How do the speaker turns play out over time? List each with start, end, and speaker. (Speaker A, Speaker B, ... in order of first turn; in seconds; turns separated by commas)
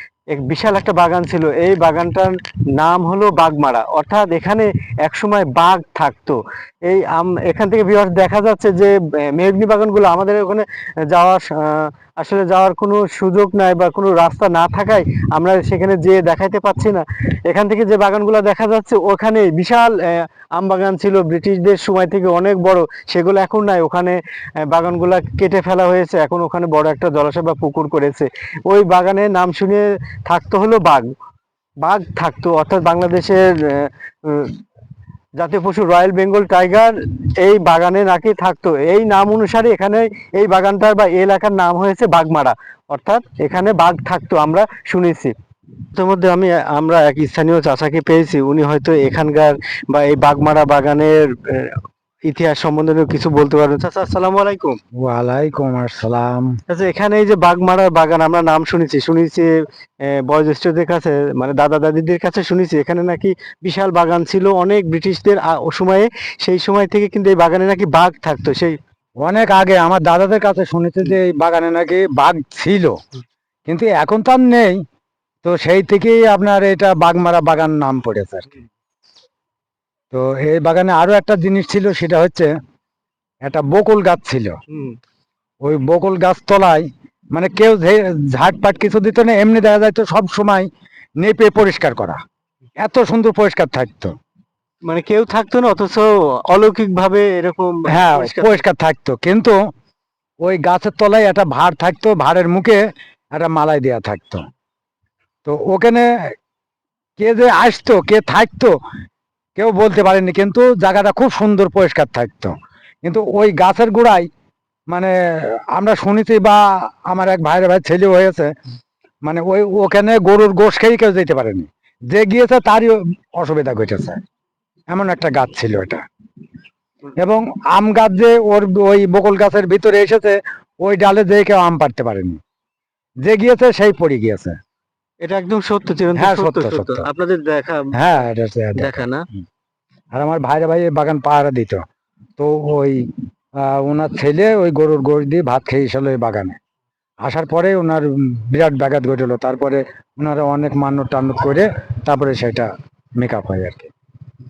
Speaker A: 0.3-31.1, Speaker A: 31.8-34.6, Speaker A: 35.4-45.3, Speaker A: 45.9-54.8, Speaker B: 55.0-56.5, Speaker A: 56.7-59.5, Speaker A: 60.0-68.8, Speaker B: 69.2-73.0, Speaker B: 73.7-74.8, Speaker B: 75.4-78.5, Speaker B: 80.1-82.5, Speaker B: 83.4-84.6, Speaker A: 84.7-85.0, Speaker B: 85.6-90.7, Speaker B: 91.2-92.2, Speaker B: 92.8-94.1, Speaker A: 94.9-98.6, Speaker B: 97.9-99.6, Speaker B: 100.4-102.8, Speaker B: 103.3-104.5, Speaker B: 105.5-106.1, Speaker B: 107.2-108.8, Speaker B: 109.6-114.3, Speaker B: 114.9-118.5, Speaker B: 119.3-124.2, Speaker B: 124.9-126.0, Speaker B: 127.2-132.4, Speaker B: 133.2-134.6, Speaker A: 135.2-138.2, Speaker B: 136.2-137.1, Speaker B: 137.9-139.0, Speaker A: 138.8-139.2, Speaker B: 140.1-141.8, Speaker B: 142.4-143.1, Speaker B: 143.6-146.6, Speaker B: 147.2-153.9